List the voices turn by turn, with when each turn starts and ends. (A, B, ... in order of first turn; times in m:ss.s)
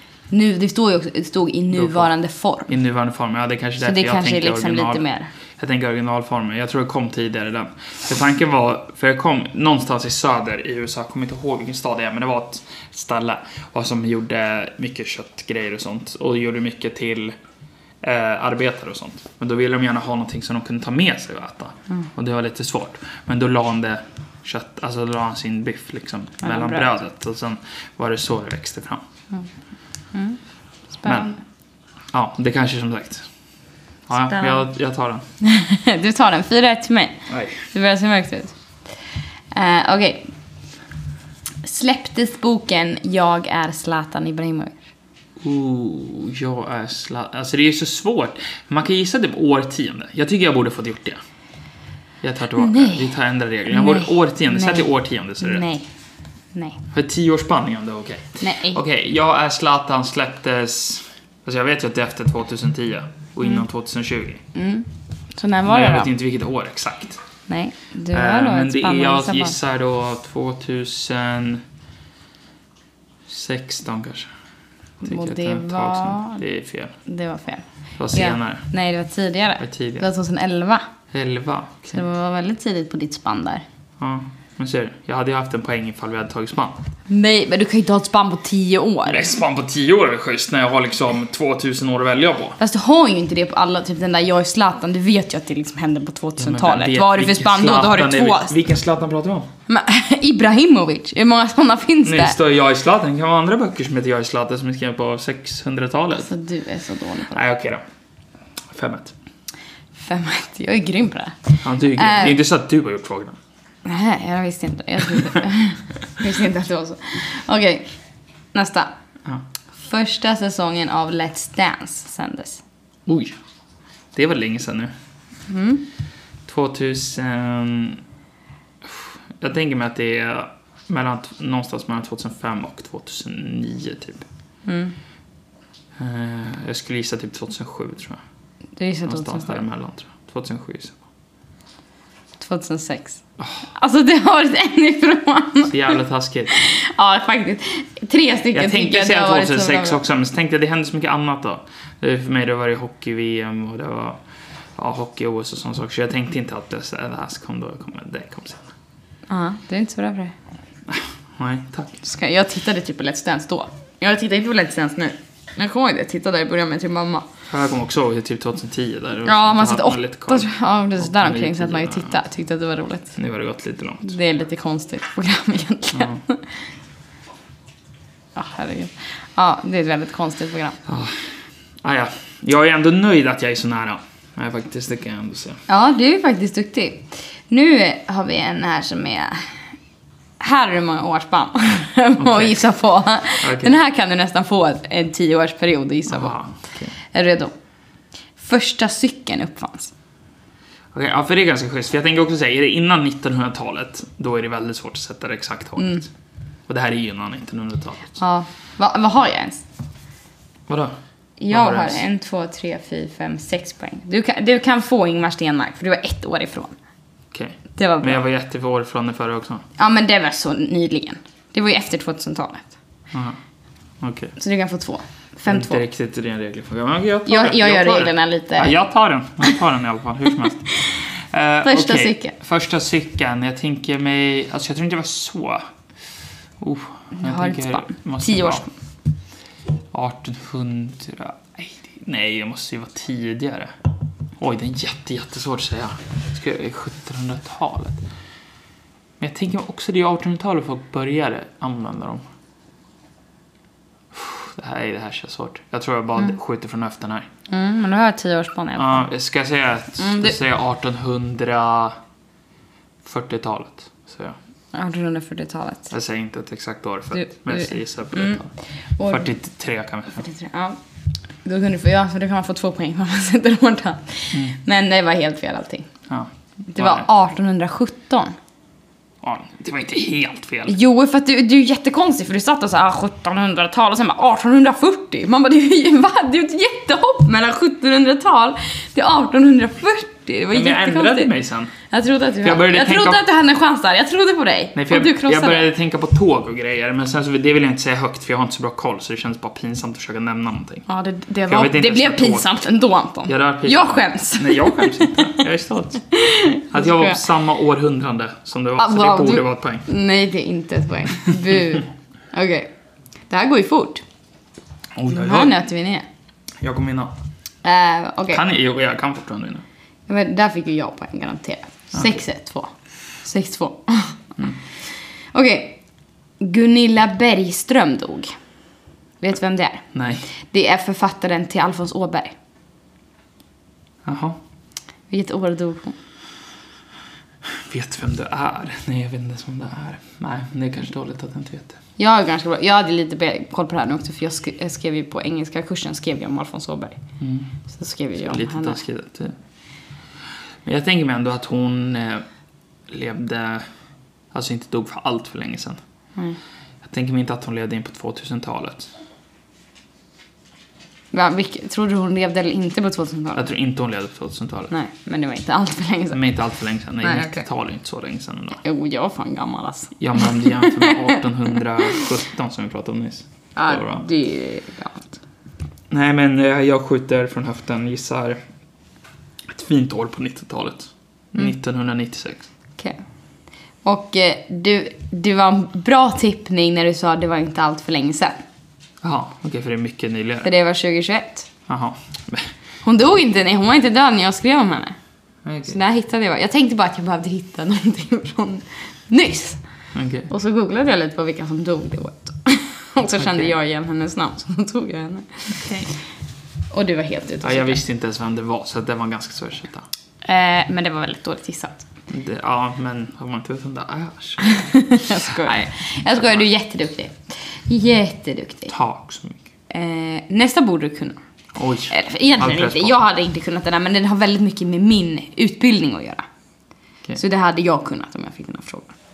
0:00.3-0:02.7 A
0:01.7-0:02.1 B
0:02.7-0:05.0 B
0:03.8-0:05.3 A
0:05.6-0:17.4 B
0:18.0-0:29.0 B
0:26.4-0:26.9 A
0:30.1-0:30.4 A
0:31.0-0:31.4 A
0:31.0-0:31.3 B
0:32.1-0:33.3 B
0:34.1-0:35.2 B
0:34.2-0:34.6 A
0:35.4-0:38.5 A
0:37.3-0:37.6 B
0:39.5-0:40.3 A
0:41.6-0:44.8 A
0:45.4-0:51.2 B
0:52.2-0:55.6 B
0:52.6-0:53.1 A
0:53.7-0:55.9 A
0:56.5-0:56.8 A
0:56.9-1:04.4 B
0:58.4-0:58.8 A
1:04.5-1:06.1 A
1:05.7-1:07.2 B
1:07.5-1:09.6 A
1:08.1-1:11.6 B
1:13.3-1:14.3 B
1:15.0-1:16.4 A
1:15.0-1:16.9 B
1:17.0-1:20.9 A
1:18.0-1:18.6 B
1:19.6-1:20.1 B
1:21.1-1:22.0 B
1:21.9-1:23.6 A
1:24.0-1:26.8 B
1:27.1-1:29.3 A
1:29.1-1:32.6 B
1:32.6-1:38.6 A
1:36.4-1:39.5 B
1:39.7-1:42.4 A
1:42.0-1:46.3 B
1:46.2-1:47.4 A
1:47.3-1:47.8 B
1:48.7-1:49.1 B
1:50.0-1:52.4 A
1:51.6-1:53.4 B
1:53.8-1:57.9 A
1:58.5-1:58.9 A
1:59.8-2:02.6 A
2:03.1-2:03.4 B
2:04.1-2:04.9 B
2:05.5-2:05.8 A
2:06.5-2:08.0 B
2:08.8-2:14.2 B
2:14.7-2:15.0 A
2:16.0-2:18.2 B
2:18.8-2:19.6 A
2:19.1-2:21.0 B
2:22.4-2:23.2 A
2:23.8-2:26.0 A
2:25.6-2:26.5 B
2:26.5-2:30.0 A
2:28.5-2:34.2 B
2:34.8-2:38.7 B
2:39.3-2:40.4 A
2:40.9-2:42.0 B
2:42.0-2:47.3 A
2:47.5-2:52.2 B
2:49.2-2:53.1 A
2:53.2-2:54.2 B
2:54.0-2:56.4 A
2:55.9-2:56.2 B
2:58.4-3:00.8 A
3:00.9-3:01.3 B
3:01.8-3:05.6 B
3:05.7-3:09.4 A
3:10.4-3:16.4 A
3:12.2-3:12.6 B
3:13.4-3:13.8 B
3:16.1-3:16.9 B
3:17.1-3:17.5 A
3:18.4-3:19.9 A
3:20.9-3:26.1 B
3:25.8-3:26.1 A
3:26.7-3:28.2 B
3:28.2-3:29.6 A
3:30.7-3:31.0 B
3:31.4-3:36.8 A
3:31.5-3:32.0 B
3:37.3-3:39.6 B
3:37.8-3:38.2 A
3:39.8-3:42.7 A
3:43.1-3:43.4 B
3:44.0-3:44.3 B
3:44.4-3:45.8 A
3:45.5-3:55.6 B
3:47.3-3:48.8 A
3:50.7-3:51.0 A
3:51.6-3:52.3 A
3:56.6-3:58.7 B
3:57.2-3:58.7 A
3:59.9-4:03.7 B
4:04.4-4:08.0 B
4:09.2-4:12.2 B
4:14.1-4:17.3 B
4:17.5-4:19.1 A
4:18.8-4:22.0 B
4:20.0-4:20.4 A
4:23.0-4:24.4 B
4:24.7-4:25.9 A
4:25.9-4:28.5 B
4:27.1-4:28.4 A
4:29.0-4:29.3 A
4:29.1-4:30.2 B
4:30.2-4:30.8 A
4:31.4-4:35.9 A
4:36.1-4:37.1 B
4:36.7-4:38.4 A
4:39.2-4:40.8 B
4:40.7-4:51.3 A
4:50.5-4:51.7 B
4:51.9-4:55.7 A
4:52.4-4:53.2 B
4:54.8-5:00.8 B
5:00.9-5:05.4 A
5:01.5-5:02.5 B
5:03.3-5:06.1 B
5:06.1-5:07.2 A
5:06.7-5:09.8 B
5:08.8-5:12.7 A
5:13.3-5:14.0 A
5:15.0-5:15.5 B
5:15.1-5:16.1 A
5:16.6-5:17.1 B
5:17.6-5:18.4 A
5:18.3-5:19.6 B
5:20.1-5:24.2 A
5:25.3-5:25.8 A
5:26.4-5:28.4 A
5:29.2-5:29.9 A
5:29.9-5:30.3 B
5:30.5-5:32.4 A
5:34.0-5:34.4 B
5:35.1-5:36.0 A
5:37.5-5:41.8 B
5:42.0-5:47.0 A
5:47.2-5:47.5 B
5:47.7-5:48.8 A
5:48.2-5:49.4 B
5:50.6-5:52.2 B
5:52.9-5:53.7 B
5:54.3-5:55.8 B
5:56.8-5:58.9 B
6:01.1-6:03.5 A
6:03.4-6:04.7 B
6:04.7-6:06.2 A
6:06.1-6:08.6 B
6:07.0-6:07.4 A
6:08.6-6:12.0 A
6:10.0-6:14.0 B
6:13.6-6:15.1 A
6:15.9-6:18.4 B
6:19.5-6:22.5 B
6:23.8-6:28.4 A
6:29.0-6:30.5 B
6:30.4-6:31.5 A
6:31.7-6:32.5 B
6:32.8-6:35.0 A
6:35.4-6:35.8 B
6:35.6-6:39.6 A
6:39.9-6:40.3 B
6:40.3-6:45.9 A
6:43.2-6:43.5 B
6:45.5-6:45.9 B
6:46.7-6:47.8 A
6:47.4-6:49.9 B
6:50.2-6:51.8 A
6:52.1-6:56.4 B
6:54.4-6:58.7 A
6:58.7-6:59.4 B
6:59.7-7:01.2 A
7:01.6-7:03.0 B
7:01.9-7:06.2 A
7:07.2-7:09.0 A